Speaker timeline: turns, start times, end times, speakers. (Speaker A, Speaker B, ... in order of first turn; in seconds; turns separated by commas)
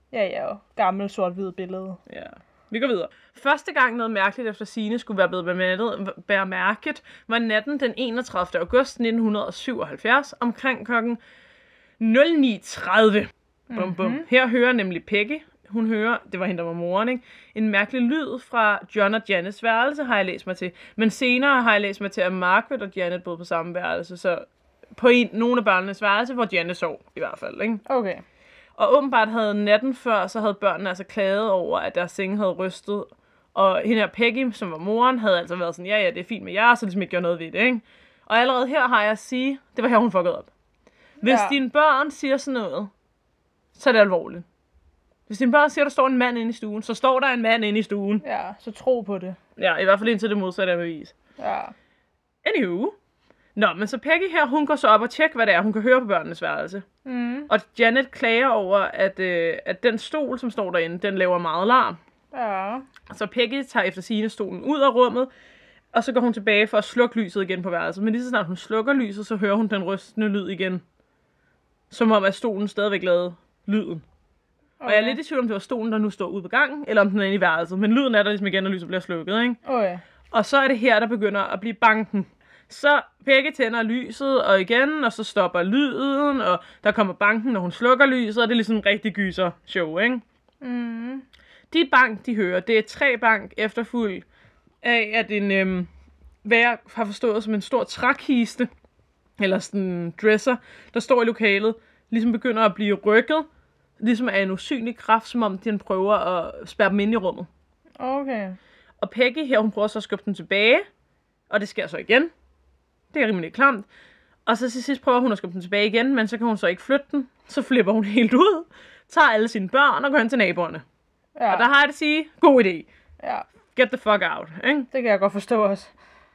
Speaker A: 0.1-2.0, Speaker B: 2.1-11.2, Speaker B: 12.0-27.8, Speaker A: 13.7-14.3, Speaker A: 27.9-28.2, Speaker B: 28.8-40.5, Speaker A: 41.2-41.6, Speaker B: 41.2-42.9, Speaker B: 43.8-44.5, Speaker B: 45.3-48.2, Speaker A: 48.2-49.4, Speaker B: 49.6-51.1, Speaker A: 51.4-51.7, Speaker B: 52.4-53.0, Speaker B: 53.6-56.9, Speaker A: 57.0-57.5, Speaker B: 57.5-62.0, Speaker A: 62.3-62.9, Speaker B: 63.1-65.3, Speaker B: 65.9-70.8, Speaker B: 71.9-74.0, Speaker A: 74.8-75.2, Speaker B: 74.8-79.6, Speaker A: 79.7-80.0, Speaker B: 80.3-90.2, Speaker A: 90.6-91.2, Speaker B: 91.7-94.3, Speaker B: 94.8-95.9, Speaker B: 96.5-98.7, Speaker B: 99.4-103.5, Speaker B: 104.0-107.5, Speaker A: 108.0-108.6, Speaker B: 109.0-110.8, Speaker B: 111.5-112.3, Speaker B: 113.1-113.9, Speaker B: 114.5-120.8, Speaker A: 121.4-121.7, Speaker B: 121.5-122.9, Speaker B: 123.8-124.9, Speaker A: 124.9-125.9